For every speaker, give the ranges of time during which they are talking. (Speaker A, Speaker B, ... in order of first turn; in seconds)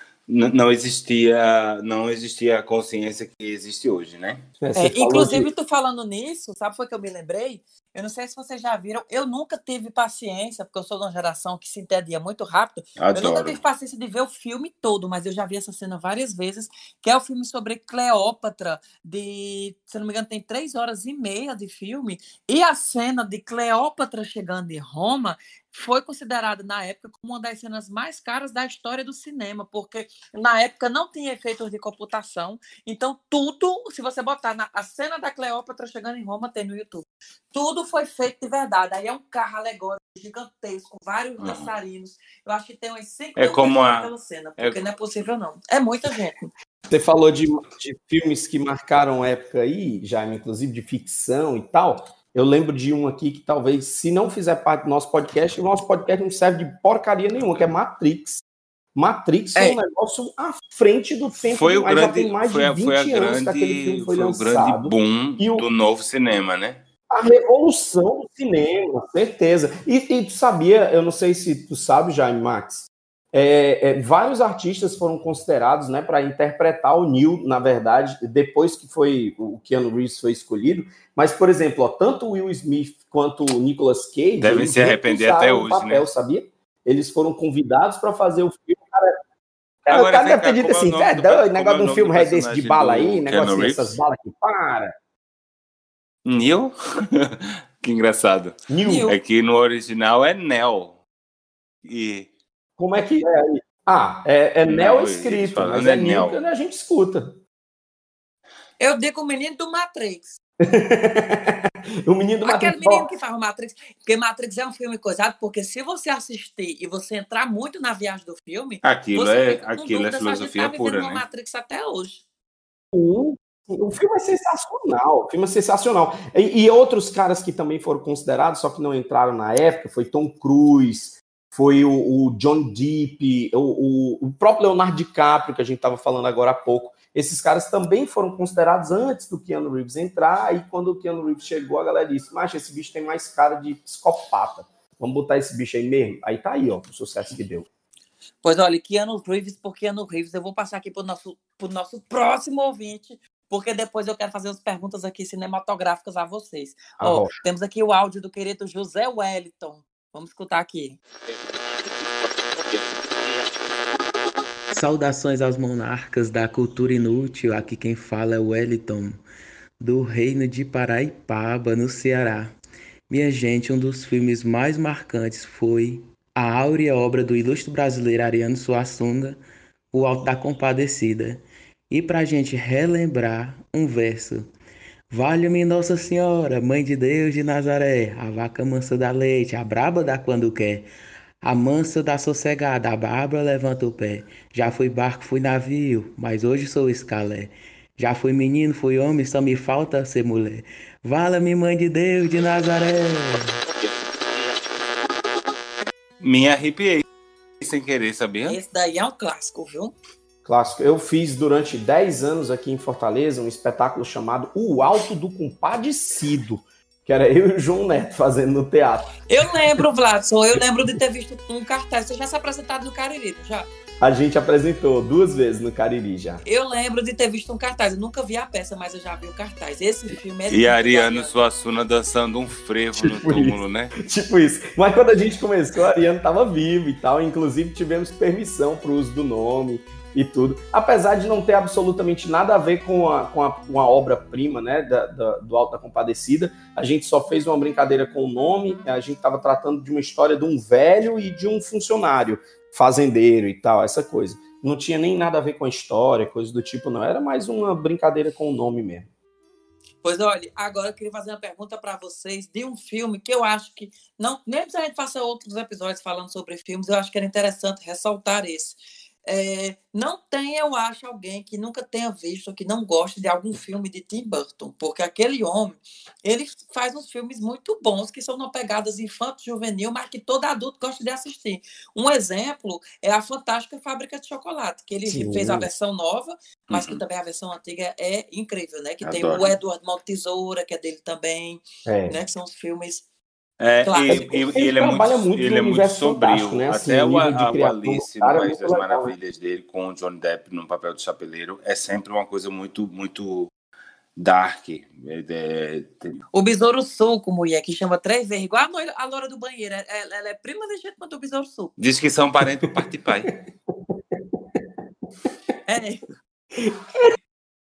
Speaker A: 0.3-4.4, 13.0-13.6, 41.4-41.7, 43.4-44.8, 61.5-66.8, 84.4-86.1, 89.9-94.0, 96.2-98.5, 99.1-101.0, 101.8-102.3, 104.7-106.4, 118.8-121.2, 206.2-207.1, 207.6-208.6, 230.5-233.9, 286.7-287.0, 289.0-289.5, 293.6-303.5, 304.2-306.2, 311.8-313.3
Speaker B: 4.6-5.5, 46.9-58.4, 59.0-65.7, 67.1-89.2, 89.8-94.9, 98.7-99.1, 102.8-107.4, 110.7-113.1, 122.9-147.7, 157.0-157.4, 210.4-219.1, 224.0-226.4, 233.0-259.1, 285.1-285.7, 291.9-292.2, 294.1-299.1, 313.7-314.6, 316.6-317.1
Speaker C: 4.8-46.5, 98.8-99.1, 108.8-110.4, 112.4-122.2, 148.4-161.0, 208.5-209.9, 219.3-223.7, 226.4-231.3, 260.0-293.0, 293.9-294.2, 306.3-311.7, 315.7-316.0
Speaker D: 164.7-169.2, 169.8-172.6, 173.1-184.5, 185.1-190.9, 191.4-203.6